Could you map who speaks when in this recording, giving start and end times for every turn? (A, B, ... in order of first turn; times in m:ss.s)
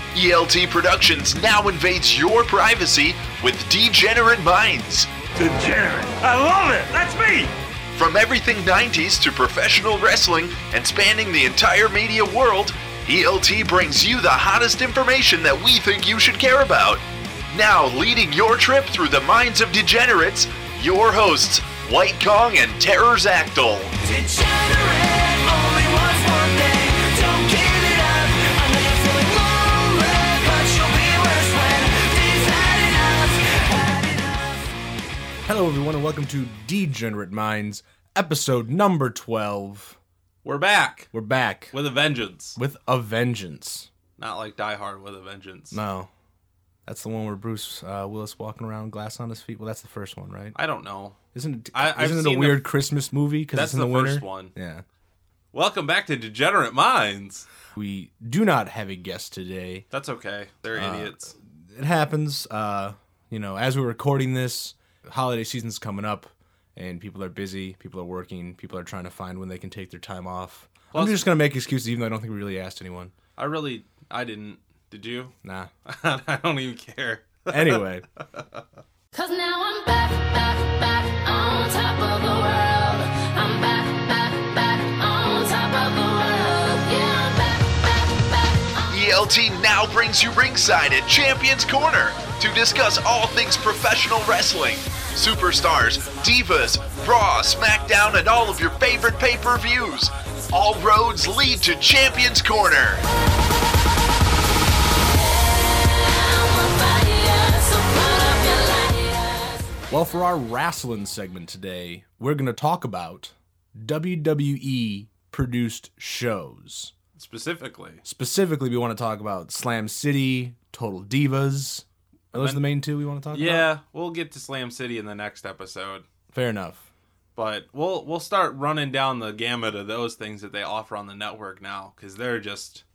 0:00.1-0:05.1 A
0:05.4-0:07.5 B
0:07.9-0:23.9 A
0:24.0-0:34.6 C
0:35.4-0:40.0 D
0:40.4-0:41.1 E
0:41.1-0:41.7 D
0:41.7-0:42.6 E
0:42.6-0:43.9 D
0:44.2-0:45.8 E
0:45.7-0:46.1 D
0:46.8-0:50.6 D
0:50.5-0:51.2 E
0:51.3-0:54.8 D
0:51.7-0:52.7 E
0:53.5-0:54.5 E
0:55.5-0:57.5 E
0:57.7-0:59.8 D
0:59.9-1:01.4 E
1:00.7-1:13.1 D
1:10.9-1:11.3 E
1:13.4-1:15.3 E
1:15.4-1:15.7 D
1:15.8-1:17.8 E
1:17.5-1:18.0 D
1:19.1-1:28.9 F
1:28.9-1:43.0 A
1:45.1-1:49.6 F
1:49.9-1:56.9 D
1:57.1-1:58.0 E
1:58.0-2:03.7 D
2:02.3-2:02.7 E
2:03.3-2:06.0 E
2:06.3-2:06.8 D
2:07.4-2:12.8 E